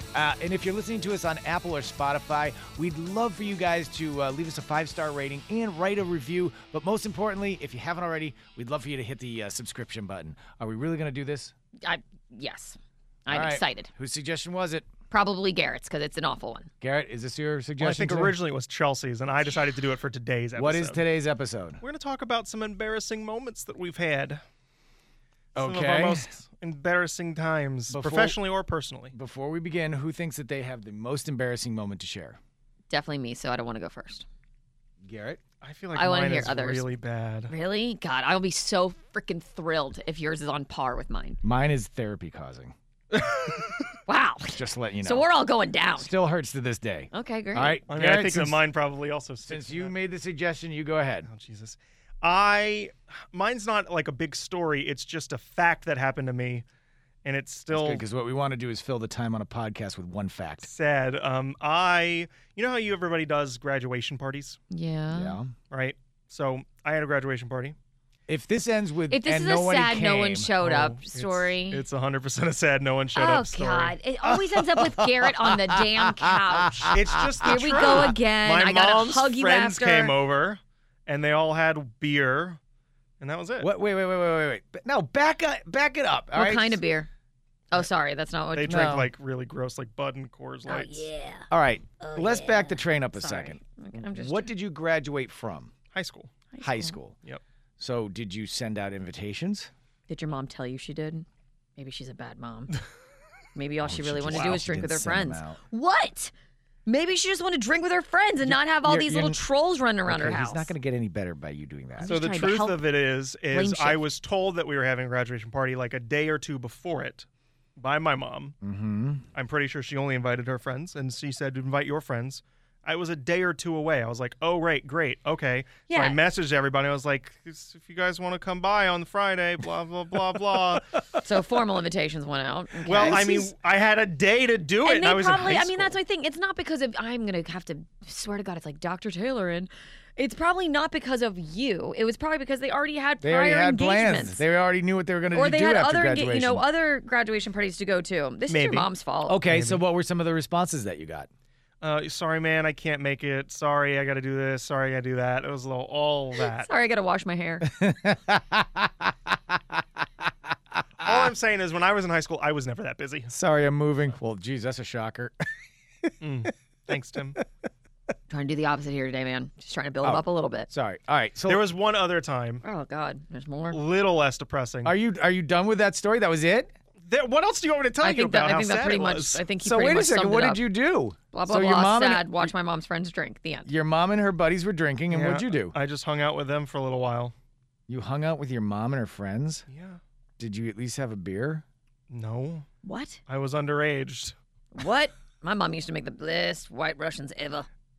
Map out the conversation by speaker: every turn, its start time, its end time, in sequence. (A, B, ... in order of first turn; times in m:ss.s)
0:00.1-0:11.5 A
0:11.8-0:13.9 B
0:13.3-0:14.8 A
0:15.1-0:16.7 B
0:16.8-0:18.4 A
0:17.8-0:21.0 C
0:20.5-0:21.8 A
0:21.8-0:24.4 C
0:25.6-0:26.3 A
0:25.6-0:29.1 C
0:27.9-0:28.4 A
0:29.1-0:32.4 A
0:32.9-0:34.2 B
0:35.0-0:35.4 A
0:35.6-0:37.5 C
0:35.9-0:36.9 B
0:37.5-0:41.4 B
0:41.4-0:42.7 A
0:43.1-0:43.8 C
0:44.1-0:46.1 B
0:44.5-0:45.3 A
0:46.0-0:48.6 A
0:47.1-0:47.8 B
0:47.9-0:49.9 C
0:49.4-0:51.3 A
0:51.2-0:56.6 C
0:57.2-0:58.0 C
0:57.7-1:00.7 A
1:00.6-1:04.6 C
1:04.7-1:05.4 B
1:05.1-1:05.5 A
1:05.7-1:07.8 C
1:08.3-1:10.5 A
1:09.1-1:11.8 B
1:10.6-1:14.0 C
1:13.1-1:20.2 B
1:14.2-1:16.3 A
1:16.9-1:18.1 A
1:16.9-1:22.6 C
1:23.2-1:23.7 C
1:23.6-1:26.8 A
1:26.3-1:27.1 B
1:27.7-1:29.0 B
1:28.5-1:31.1 C
1:28.7-1:29.1 A
1:30.7-1:31.5 B
1:31.5-1:35.7 A
1:32.0-1:34.5 B
1:35.9-1:36.3 C
1:36.5-1:37.0 B
1:36.6-1:37.2 A
1:37.8-1:39.7 A
1:40.1-1:41.2 B
1:41.8-1:42.7 B
1:43.5-1:46.3 B
1:43.8-1:45.6 A
1:44.3-1:44.6 C
1:46.8-1:50.7 B
1:48.4-1:49.4 A
1:50.0-1:52.2 A
1:52.0-1:52.9 B
1:52.0-1:58.6 C
1:53.5-1:54.0 B
1:58.6-1:59.2 A
1:59.3-2:10.9 C
2:05.9-2:06.2 B
2:11.2-2:13.5 B
2:12.8-2:16.0 C
2:12.8-2:13.4 A
2:14.8-2:24.4 B
2:23.2-2:26.6 A
2:25.3-2:29.4 B
2:28.5-2:28.9 C
2:29.3-2:31.3 A
2:29.5-2:29.8 C
2:31.8-2:36.7 C
2:36.5-2:37.7 B
2:37.6-2:39.1 A
2:41.0-2:43.3 C
2:41.0-2:41.3 A
2:43.3-2:45.3 A
2:46.2-2:47.4 C
2:48.3-2:50.7 B
2:50.0-2:51.7 A
2:51.4-2:52.6 C
2:52.6-2:53.8 B
2:53.7-2:54.9 C
2:54.8-2:56.7 A
2:57.0-2:59.4 C
2:58.0-3:00.6 B
2:59.6-3:02.5 A
3:01.3-3:03.7 B
3:03.6-3:05.7 A
3:05.1-3:07.3 C
3:07.9-3:09.6 A
3:09.7-3:10.0 C
3:10.4-3:11.6 A
3:12.1-3:12.7 C
3:12.8-3:13.2 B
3:13.3-3:14.4 C
3:14.7-3:17.7 B